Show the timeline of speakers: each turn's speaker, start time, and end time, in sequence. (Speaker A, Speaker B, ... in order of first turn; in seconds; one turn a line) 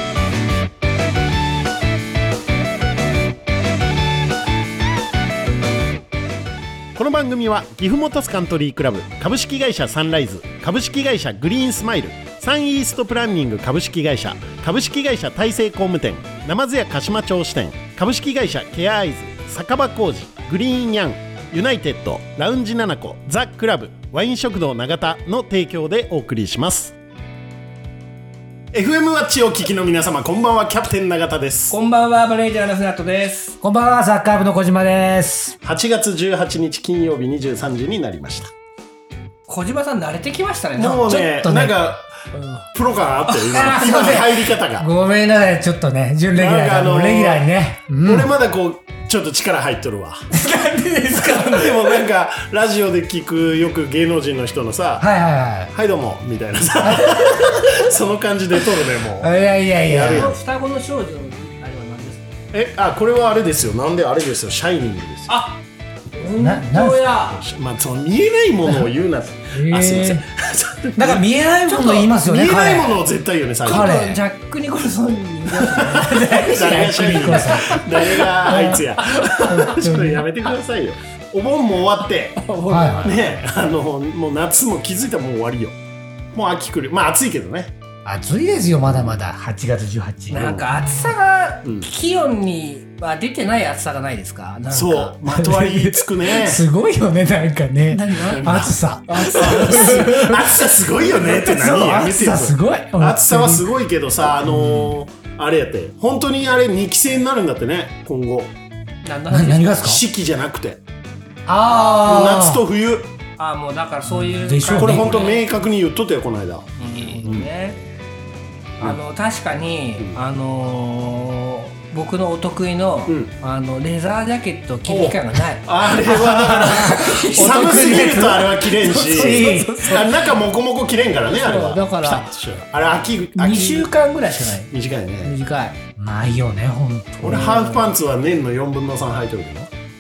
Speaker A: 7.0-26.9
Speaker A: 28.7-31.8
Speaker B: 31.7-33.6
Speaker C: 33.6-35.6
Speaker A: 35.6-38.5
Speaker B: 39.5-41.2
Speaker A: 40.8-44.9
Speaker C: 41.0-41.8
Speaker B: 42.3-42.6
Speaker C: 43.3-48.3
Speaker A: 46.4-47.5
Speaker A: 48.0-50.3
Speaker C: 50.3-52.0
Speaker A: 51.3-55.1
Speaker C: 55.0-55.7
Speaker A: 55.7-60.4
Speaker C: 56.8-57.9
Speaker C: 59.2-60.4
Speaker B: 60.0-62.3
Speaker A: 62.5-65.4
Speaker B: 65.3-65.6
Speaker B: 66.2-67.4
Speaker C: 66.4-67.2
Speaker A: 67.2-74.0
Speaker C: 69.5-70.2
Speaker C: 71.0-73.0
Speaker C: 73.7-74.2
Speaker B: 73.7-76.8
Speaker A: 75.6-82.4
Speaker C: 76.0-80.3
Speaker B: 82.4-83.4
Speaker C: 82.7-83.2
Speaker A: 83.0-85.8
Speaker A: 86.3-87.7
Speaker C: 88.0-90.6
Speaker B: 90.3-95.2
Speaker A: 90.4-90.7
Speaker A: 91.6-91.9
Speaker A: 94.7-96.6
Speaker C: 95.3-103.7
Speaker B: 97.9-100.1
Speaker A: 98.3-108.5
Speaker C: 104.5-104.9
Speaker B: 109.0-109.9
Speaker C: 109.3-110.0
Speaker A: 109.8-110.8
Speaker C: 111.5-112.6
Speaker A: 111.9-113.1
Speaker B: 113.4-115.4
Speaker C: 114.2-115.3
Speaker A: 114.7-116.7
Speaker B: 116.8-117.8
Speaker A: 117.2-117.5
Speaker B: 118.8-125.7
Speaker A: 123.1-123.3
Speaker A: 124.9-133.9
Speaker C: 126.0-130.1
Speaker B: 127.2-128.2
Speaker B: 128.9-130.3
Speaker B: 131.3-132.3
Speaker B: 133.4-134.7
Speaker A: 134.7-135.3
Speaker B: 135.2-135.8
Speaker C: 136.0-137.5
Speaker A: 137.2-139.7
Speaker B: 137.3-137.9